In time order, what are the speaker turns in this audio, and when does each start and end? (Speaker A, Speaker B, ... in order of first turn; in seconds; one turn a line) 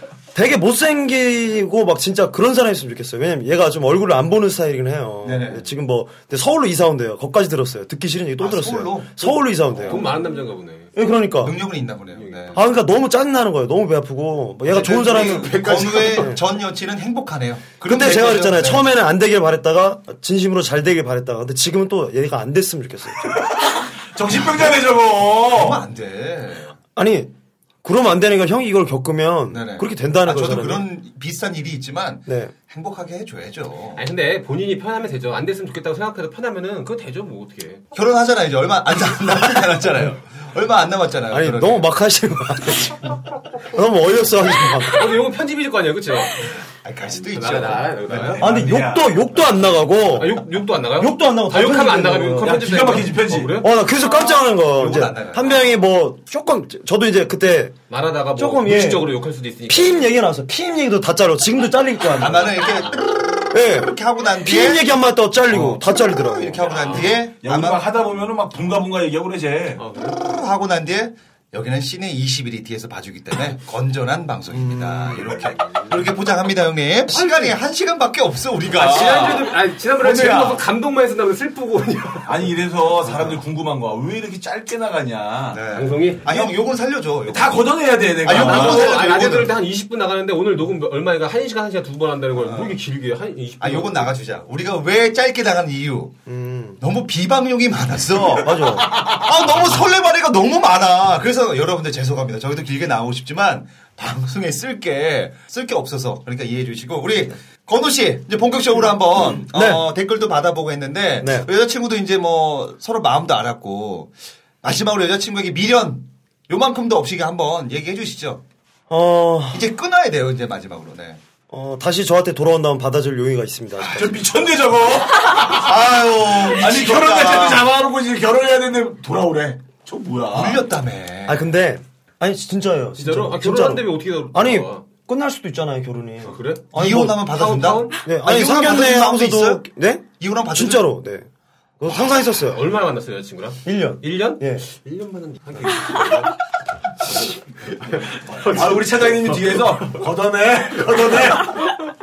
Speaker A: 0.3-10.0
Speaker B: 5.2-5.7
Speaker B: 8.4-10.1
Speaker C: 9.9-10.9
Speaker A: 10.9-11.6
Speaker B: 11.4-12.6
Speaker C: 12.2-12.6
Speaker A: 12.5-16.4
Speaker B: 14.7-18.8
Speaker A: 17.8-23.3
Speaker D: 24.1-25.8
Speaker B: 25.5-26.7
Speaker A: 26.9-27.3
Speaker A: 27.8-30.9
Speaker B: 29.5-34.0
Speaker A: 32.3-32.5
Speaker C: 34.0-37.8
Speaker B: 37.9-41.9
Speaker A: 41.3-43.2
Speaker A: 43.7-45.1
Speaker C: 45.0-46.5
Speaker B: 46.8-48.4
Speaker C: 47.3-48.4
Speaker D: 48.4-49.2
Speaker A: 48.4-50.4
Speaker C: 50.1-53.7
Speaker A: 51.0-52.6
Speaker D: 52.4-53.6
Speaker A: 53.6-57.8
Speaker B: 54.6-55.7
Speaker C: 57.9-60.1
Speaker A: 58.4-59.1
Speaker A: 59.7-62.6
Speaker B: 62.2-64.8
Speaker A: 63.5-66.6
Speaker B: 65.5-67.8
Speaker C: 66.6-67.1
Speaker D: 67.4-69.8
Speaker C: 69.8-70.2
Speaker B: 70.0-79.5
Speaker A: 74.5-75.3
Speaker C: 77.1-77.5
Speaker C: 78.7-82.5
Speaker D: 79.0-79.3
Speaker B: 80.0-80.5
Speaker D: 80.0-80.6
Speaker D: 82.2-85.6
Speaker B: 85.5-89.5
Speaker C: 85.7-86.3
Speaker D: 87.3-89.2
Speaker C: 88.3-94.1
Speaker B: 92.4-92.8
Speaker B: 93.6-96.2
Speaker A: 96.3-96.8
Speaker B: 96.8-114.1
Speaker A: 98.4-98.9
Speaker A: 109.4-109.8
Speaker A: 111.2-111.5
Speaker B: 114.6-118.4
Speaker A: 118.9-119.7
Speaker B: 119.5-121.2
Speaker A: 121.5-124.2
Speaker B: 123.8-124.1
Speaker D: 123.9-125.7
Speaker B: 125.3-127.7
Speaker D: 126.3-130.6
Speaker B: 130.3-131.4
Speaker A: 131.2-137.2
Speaker C: 133.0-134.8
Speaker C: 136.2-136.6
Speaker B: 136.7-139.6
Speaker C: 137.2-137.9
Speaker A: 138.0-141.3
Speaker B: 140.2-140.9
Speaker A: 141.8-142.6
Speaker C: 142.4-146.3
Speaker A: 143.6-144.6
Speaker C: 147.8-149.4
Speaker D: 148.2-151.6